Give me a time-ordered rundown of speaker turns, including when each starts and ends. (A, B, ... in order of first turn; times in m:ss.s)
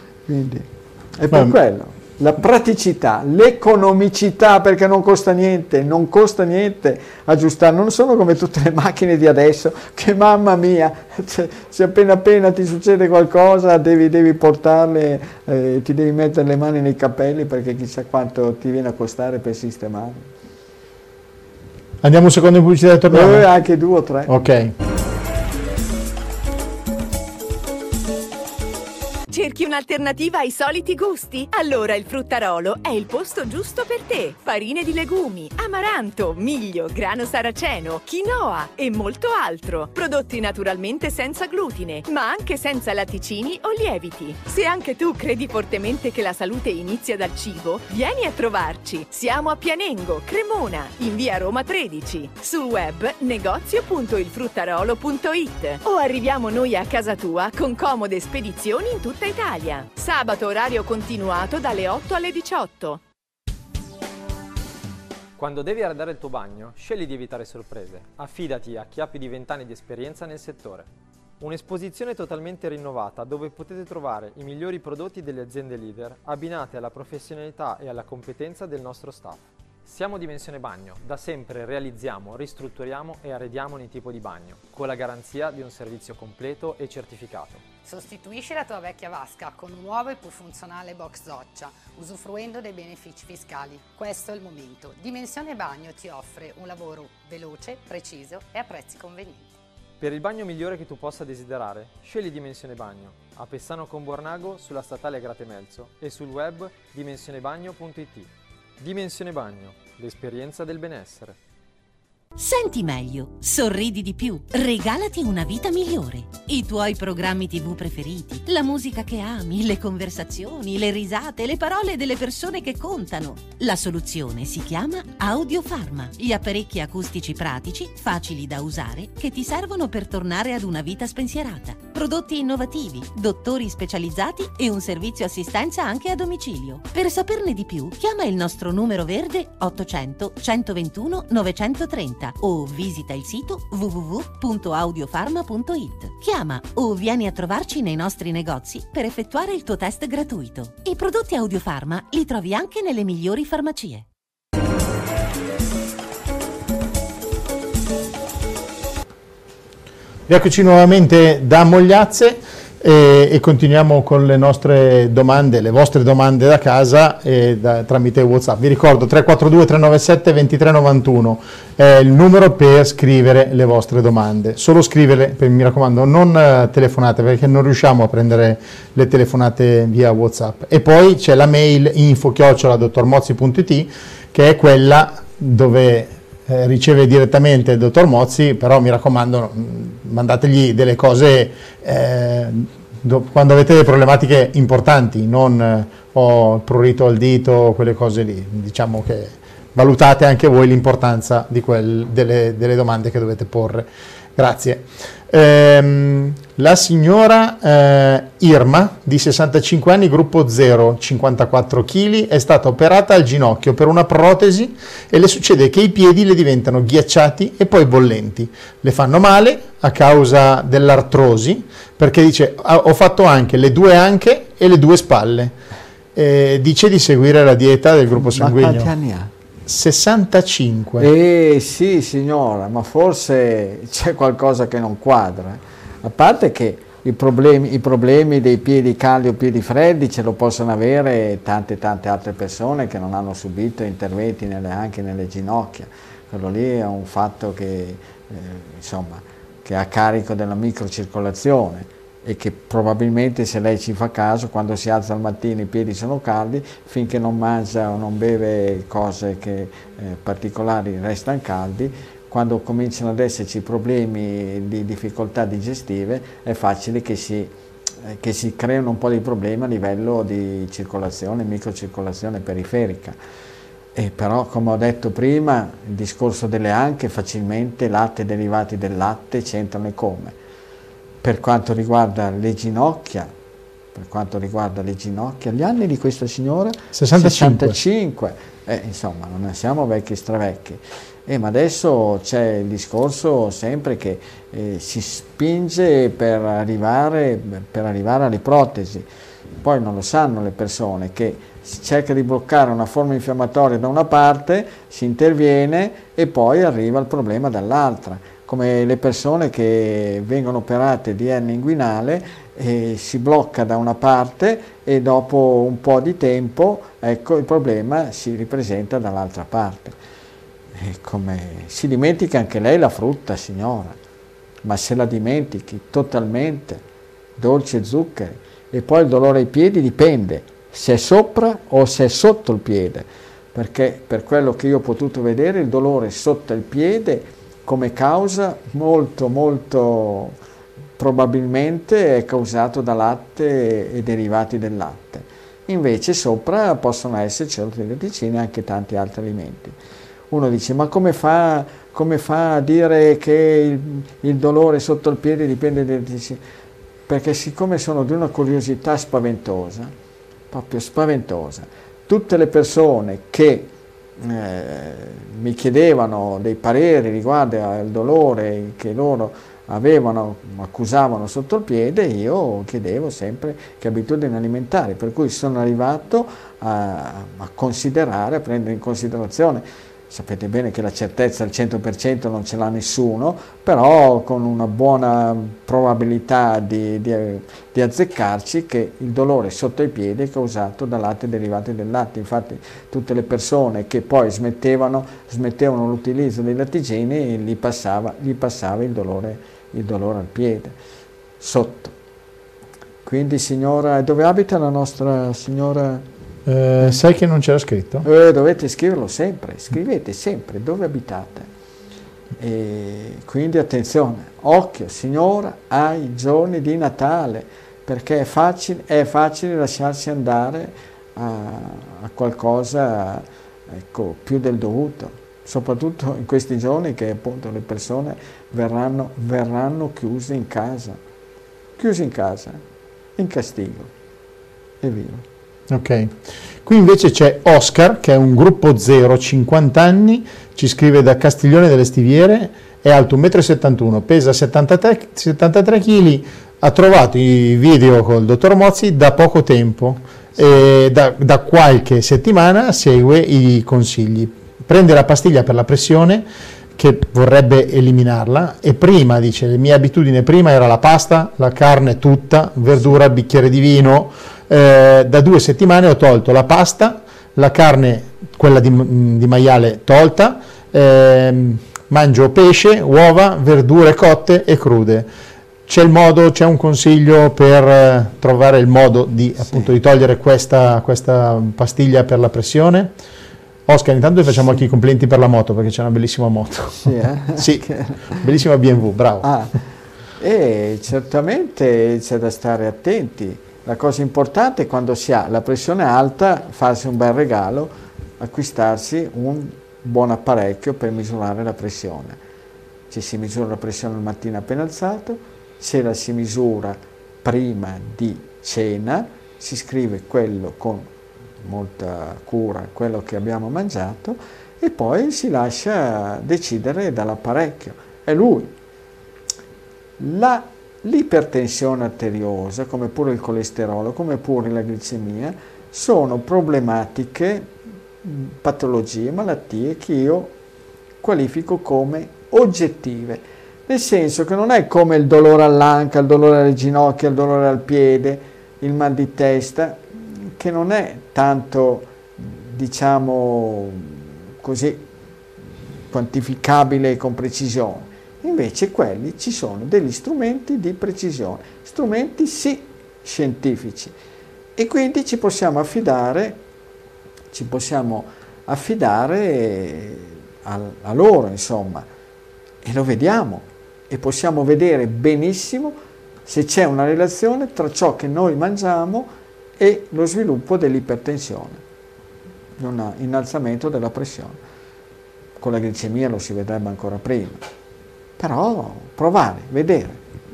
0:00.3-0:20.3 A
0:01.3-0:01.6 B
0:22.0-0:23.5 B
0:23.1-0:24.3 A
0:24.3-0:24.7 B
0:29.3-1:03.0 C
1:05.4-1:10.9 D
1:11.4-1:27.6 D
1:27.8-1:39.5 E
1:40.0-1:51.4 D
1:52.4-2:34.0 F
2:40.3-3:45.6 B
3:46.1-3:48.9 B
3:48.1-3:49.3 A
3:49.6-3:51.1 B
3:51.0-4:27.5 A
4:28.0-4:33.2 A
4:33.9-4:40.3 A
4:41.2-4:43.3 A
4:43.9-4:59.0 A
4:46.9-4:47.8 B
4:59.6-5:20.0 A
5:20.8-5:24.0 A
5:24.6-5:26.8 A
5:27.4-5:40.3 A
5:41.0-5:49.8 A
5:50.3-5:56.4 A
5:57.1-5:59.9 A
6:00.5-6:40.7 A
6:41.4-6:41.9 A
6:43.0-6:46.0 A
6:46.4-6:48.0 B
6:48.0-6:51.5 A
6:52.4-7:11.0 A
7:11.8-7:12.6 A
7:13.2-7:13.9 A
7:14.8-7:15.2 A
7:15.7-7:55.1 B
7:55.7-8:02.9 B
7:59.4-7:59.7 A
8:03.7-8:09.3 B
8:04.3-8:04.6 A
8:06.8-8:08.2 A
8:09.2-8:09.6 A
8:10.2-8:22.2 A
8:22.9-8:30.9 A
8:31.4-8:38.5 A
8:40.0-8:47.5 A
8:48.0-8:50.3 A
8:51.0-9:04.8 A
9:05.9-9:13.9 A
9:14.6-9:16.4 A
9:17.3-9:21.8 A
9:22.6-9:25.7 A
9:26.2-9:31.6 A
9:32.6-9:34.4 A
9:35.4-9:37.4 A
9:38.2-9:40.0 A